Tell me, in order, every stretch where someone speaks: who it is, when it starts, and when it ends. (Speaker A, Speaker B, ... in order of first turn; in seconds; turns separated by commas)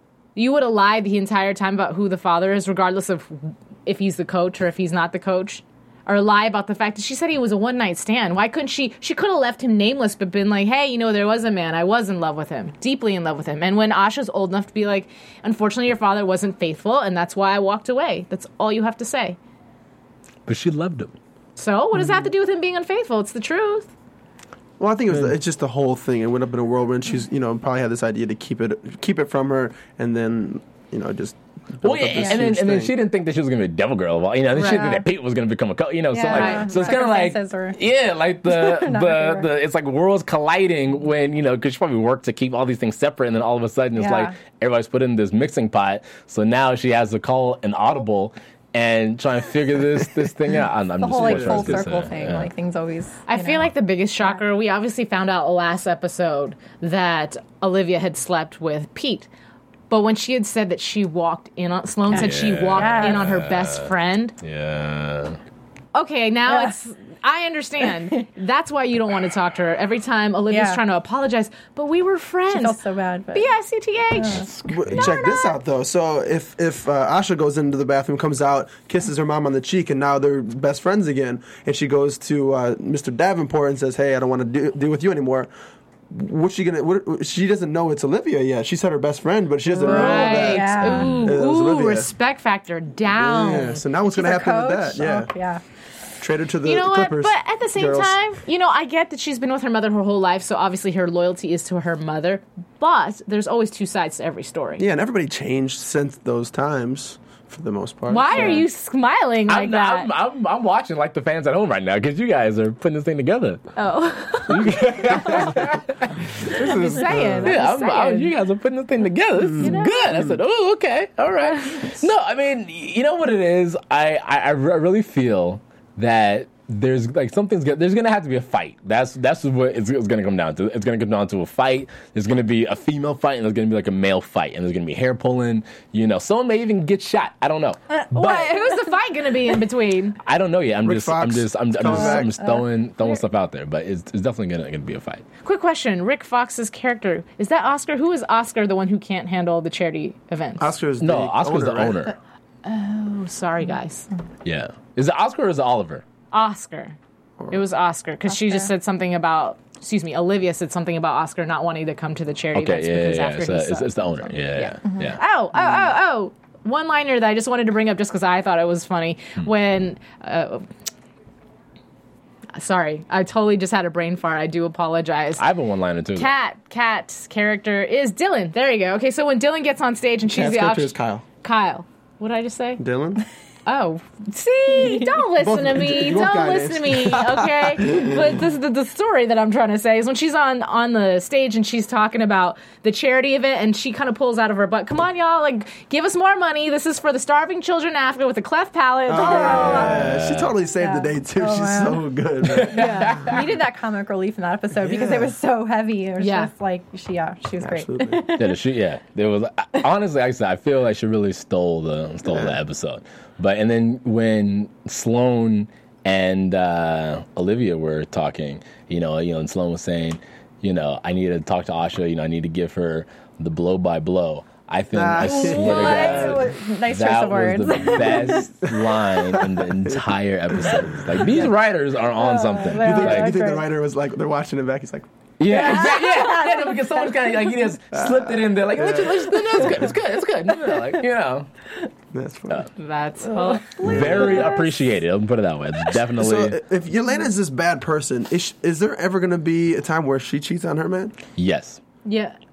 Speaker A: 0.4-19.4, Speaker B: 20.5-21.1, Speaker A: 21.6-23.9, Speaker C: 24.8-32.9, Speaker B: 31.8-52.5, Speaker A: 34.6-35.0, Speaker D: 34.6-34.9, Speaker D: 36.1-37.8, Speaker A: 36.3-36.8, Speaker D: 38.5-39.5, Speaker D: 44.0-44.3, Speaker D: 51.0-53.7, Speaker C: 51.2-51.8, Speaker A: 53.3-59.3, Speaker A: 59.9-64.3, Speaker B: 62.1-63.9, Speaker D: 62.2-63.3, Speaker B: 64.4-65.4, Speaker A: 65.9-72.8, Speaker D: 66.5-66.7, Speaker D: 70.5-70.8, Speaker D: 72.5-73.5, Speaker A: 73.3-75.6, Speaker D: 74.1-74.5, Speaker B: 74.3-75.0, Speaker C: 74.7-85.5, Speaker C: 86.1-92.1, Speaker D: 89.8-91.2, Speaker A: 89.8-93.8, Speaker C: 93.1-95.3, Speaker D: 94.1-95.6, Speaker C: 96.2-98.2, Speaker A: 96.6-104.8, Speaker C: 104.8-108.7, Speaker A: 108.1-110.1, Speaker B: 109.5-113.7, Speaker A: 113.8-115.6, Speaker B: 114.5-138.6, Speaker C: 116.4-117.5, Speaker A: 116.5-118.3, Speaker A: 119.6-120.3, Speaker A: 121.5-121.9, Speaker A: 138.1-140.2, Speaker B: 140.2-145.2, Speaker C: 140.8-142.4, Speaker A: 145.4-150.7, Speaker C: 150.6-152.1, Speaker B: 151.0-152.2, Speaker A: 152.6-154.1, Speaker B: 154.4-156.0, Speaker A: 156.3-157.0, Speaker A: 157.5-170.7, Speaker B: 162.5-165.2, Speaker A: 172.5-175.4, Speaker B: 175.4-176.3, Speaker A: 176.2-182.8, Speaker C: 180.3-181.2, Speaker C: 182.8-183.2, Speaker A: 183.7-199.9, Speaker D: 184.8-185.1, Speaker C: 185.4-188.3, Speaker C: 199.1-203.1, Speaker D: 199.1-200.1, Speaker B: 199.5-200.5, Speaker D: 200.8-202.1, Speaker B: 202.5-203.4, Speaker D: 202.7-208.6, Speaker A: 202.8-203.2, Speaker C: 204.8-205.3, Speaker A: 206.2-206.5, Speaker C: 207.6-208.3, Speaker B: 208.3-233.3, Speaker C: 212.2-212.6, Speaker C: 224.9-226.5, Speaker D: 225.2-228.5, Speaker C: 228.0-228.7, Speaker C: 230.6-231.4, Speaker D: 232.2-233.7, Speaker C: 232.8-235.1, Speaker B: 235.4-241.5, Speaker D: 235.5-237.5, Speaker C: 237.9-239.9, Speaker C: 242.1-242.7, Speaker A: 242.8-244.1, Speaker D: 243.3-244.6, Speaker C: 243.8-244.5, Speaker B: 243.8-246.6, Speaker C: 246.1-251.2, Speaker B: 251.4-251.8, Speaker A: 252.1-252.4